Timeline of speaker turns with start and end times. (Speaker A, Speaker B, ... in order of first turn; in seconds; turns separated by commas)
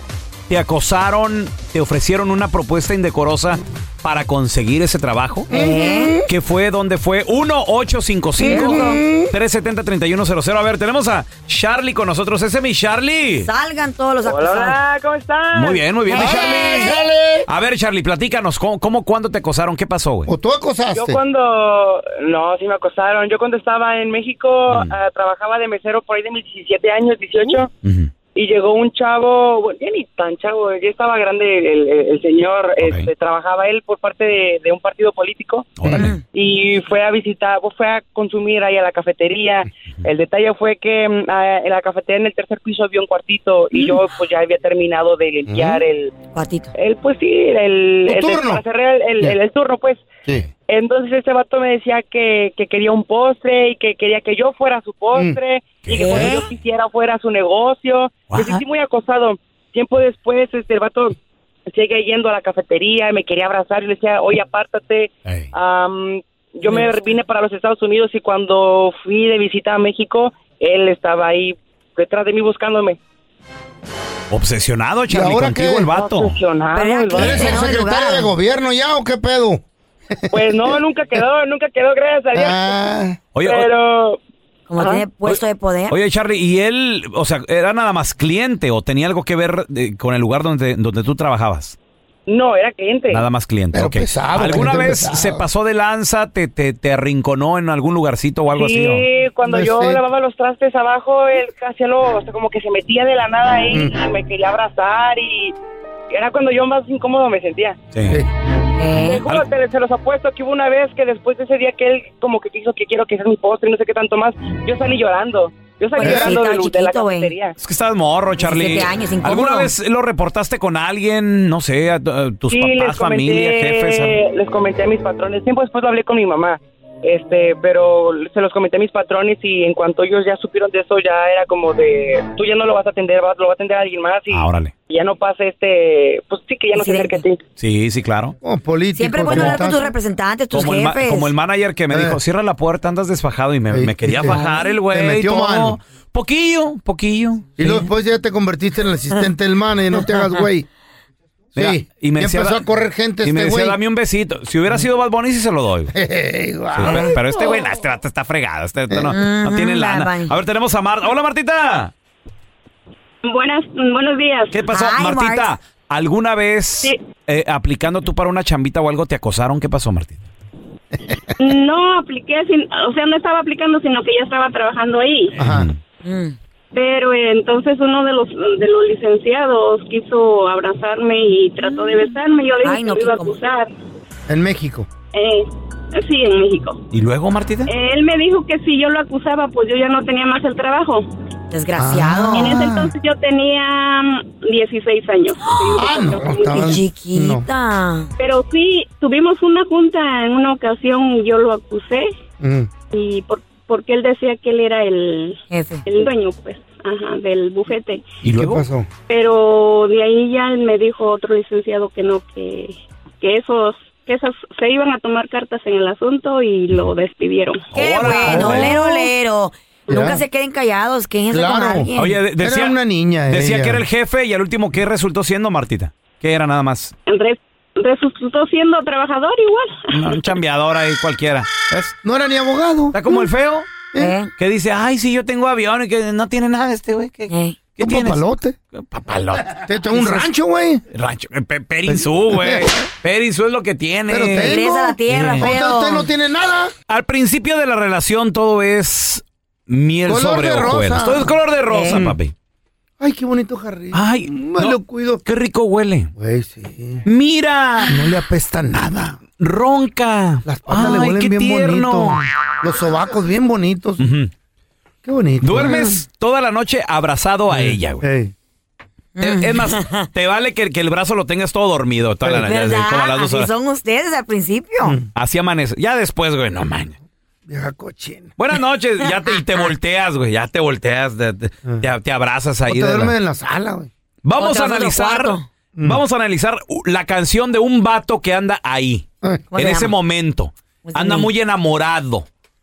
Speaker A: 0.5-5.5, Speaker B: 5.5-6.3, Speaker C: 5.5-6.2, Speaker A: 6.3-13.5, Speaker B: 8.4-9.3, Speaker C: 8.4-9.0, Speaker C: 13.4-14.8, Speaker D: 14.2-15.8, Speaker A: 15.6-17.0, Speaker B: 16.1-17.5, Speaker C: 16.1-17.0, Speaker A: 17.5-20.3, Speaker B: 20.3-21.2, Speaker D: 20.9-27.7, Speaker A: 24.7-24.9, Speaker A: 27.8-28.1, Speaker D: 28.4-35.8, Speaker A: 32.8-33.1, Speaker A: 35.8-36.1, Speaker B: 35.9-36.1, Speaker D: 36.3-46.1, Speaker B: 45.5-45.8, Speaker C: 46.3-46.7, Speaker D: 46.8-50.1, Speaker B: 48.1-48.6, Speaker D: 50.7-61.2, Speaker A: 55.9-56.4, Speaker C: 55.9-56.5, Speaker A: 58.3-58.6, Speaker D: 61.7-73.0, Speaker A: 74.3-76.4, Speaker B: 75.1-75.9, Speaker D: 75.9-77.6, Speaker C: 76.7-78.3, Speaker B: 77.1-80.8, Speaker D: 80.3-82.8, Speaker B: 82.3-83.2, Speaker A: 83.3-83.7, Speaker D: 83.4-84.2, Speaker C: 84.7-86.0, Speaker D: 84.8-85.0, Speaker A: 85.3-91.8, Speaker D: 92.3-93.2, Speaker A: 93.1-99.0, Speaker B: 93.7-95.4, Speaker D: 98.5-105.6, Speaker B: 99.5-100.0, Speaker B: 103.7-104.0, Speaker D: 106.1-107.8, Speaker A: 107.9-108.2, Speaker C: 108.8-109.2, Speaker D: 109.0-117.6, Speaker C: 116.0-117.3, Speaker B: 116.0-116.4, Speaker A: 117.6-124.2, Speaker C: 118.4-119.7, Speaker D: 122.5-137.4, Speaker A: 134.3-134.7, Speaker C: 136.8-137.2, Speaker A: 137.6-138.3, Speaker B: 138.4-139.9, Speaker C: 138.9-141.3, Speaker A: 139.3-139.6, Speaker A: 140.5-147.9, Speaker B: 141.9-142.2, Speaker B: 143.7-145.8, Speaker C: 144.3-144.6, Speaker B: 147.6-150.7, Speaker C: 149.9-150.4, Speaker A: 151.6-152.6, Speaker B: 151.6-153.8, Speaker A: 153.2-155.9, Speaker B: 155.9-157.5, Speaker A: 156.7-161.9, Speaker C: 156.9-157.2, Speaker C: 159.1-160.3, Speaker E: 163.2-164.6, Speaker A: 164.5-170.2, Speaker C: 164.7-165.5, Speaker E: 171.4-175.3, Speaker B: 175.4-175.7, Speaker A: 175.4-175.8, Speaker C: 176.0-176.4, Speaker E: 176.7-183.7, Speaker C: 181.6-183.4, Speaker B: 184.3-184.9, Speaker E: 185.1-186.8, Speaker A: 186.9-187.7, Speaker E: 187.7-191.1, Speaker C: 191.5-192.6, Speaker B: 191.8-192.9, Speaker E: 192.3-196.8, Speaker B: 195.7-197.5, Speaker C: 196.4-198.1, Speaker E: 198.2-202.1, Speaker B: 202.4-202.7, Speaker E: 202.9-208.1, Speaker C: 205.5-205.8, Speaker B: 208.2-208.9, Speaker A: 208.2-208.6, Speaker E: 209.1-219.1, Speaker A: 217.7-218.8, Speaker C: 217.7-222.2, Speaker B: 218.2-218.8, Speaker B: 219.9-220.2, Speaker B: 221.3-223.8, Speaker A: 222.0-226.9, Speaker E: 227.1-230.3, Speaker A: 229.9-231.9, Speaker B: 232.0-233.3, Speaker A: 232.9-233.7, Speaker C: 234.0-234.3, Speaker A: 234.4-240.3, Speaker C: 237.3-237.6, Speaker B: 237.8-238.6, Speaker B: 239.6-240.8, Speaker A: 240.9-244.6, Speaker B: 241.9-242.8, Speaker B: 244.1-246.7, Speaker C: 244.4-246.1, Speaker A: 246.9-252.3, Speaker B: 250.1-251.4, Speaker C: 251.7-252.0, Speaker B: 251.9-252.2, Speaker B: 253.0-255.2, Speaker A: 253.9-256.1, Speaker B: 256.2-257.1, Speaker A: 257.1-258.1, Speaker B: 257.8-259.2, Speaker A: 259.4-262.2, Speaker B: 260.4-264.1, Speaker A: 264.0-264.3, Speaker B: 265.0-266.0, Speaker A: 265.4-268.1, Speaker B: 267.5-268.3, Speaker C: 269.2-270.1, Speaker A: 269.2-273.5, Speaker C: 272.3-275.0, Speaker A: 275.1-277.0, Speaker B: 277.5-278.3, Speaker A: 278.4-283.2, Speaker C: 279.0-279.6, Speaker B: 282.7-283.9, Speaker A: 284.2-292.3, Speaker C: 284.4-285.5, Speaker B: 285.8-286.0, Speaker C: 289.5-289.9, Speaker C: 290.9-291.3